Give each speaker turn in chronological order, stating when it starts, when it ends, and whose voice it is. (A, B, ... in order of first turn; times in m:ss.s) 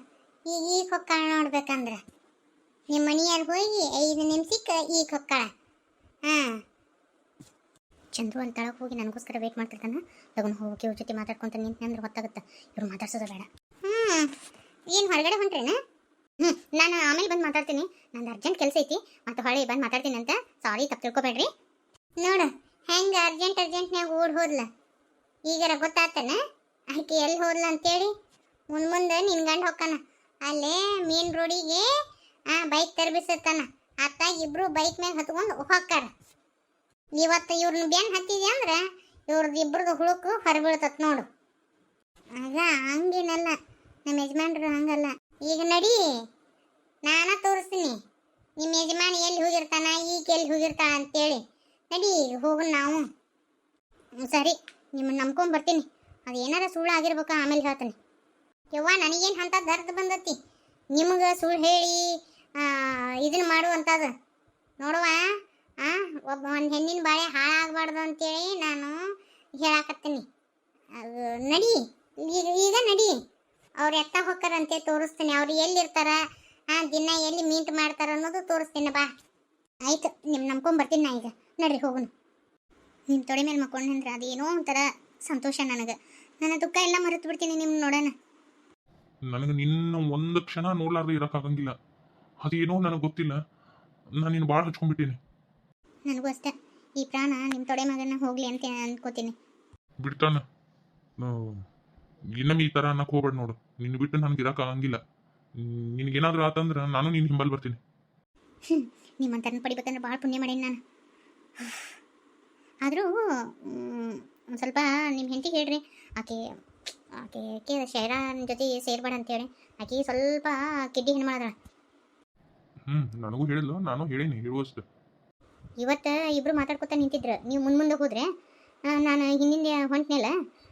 0:00.5-0:02.0 A
0:02.9-0:05.5 A
0:06.3-0:06.6 A
0:08.2-0:14.3 A
0:14.9-0:15.8 A
0:16.4-0:21.5 A
0:22.2-0:24.7 A
0:25.5-0:26.4 A
0:26.9-0:28.1 A
0:28.7-0:31.9 A
0:32.5-0:36.1 A
0:37.2-0:41.3 A
0:42.4-0:46.0 A
0:47.1-0:48.0 A
0:48.6-0:51.4 A
0:51.9-0:53.1 A
0:54.3-0:58.0 A
0:58.7-1:00.4 A
1:01.0-1:04.1 A
1:04.8-1:05.2 A
1:05.8-1:09.0 A
1:09.6-1:10.2 A
1:11.0-1:13.2 A
1:13.8-1:16.2 A
1:16.7-1:19.1 A
1:19.9-1:22.1 A
1:23.1-1:28.1 A
1:29.3-1:31.8 B
1:32.4-1:33.4 B
1:34.2-1:35.2 B
1:36.1-1:39.3 A
1:40.0-1:40.4 B
1:41.2-1:41.6 B
1:42.4-1:45.0 B
1:45.6-1:47.8 B
1:48.7-1:50.8 A
1:53.6-1:56.4 A
1:57.2-2:01.5 A
2:02.9-2:04.8 B
2:05.8-2:08.3 A
2:08.9-2:10.3 A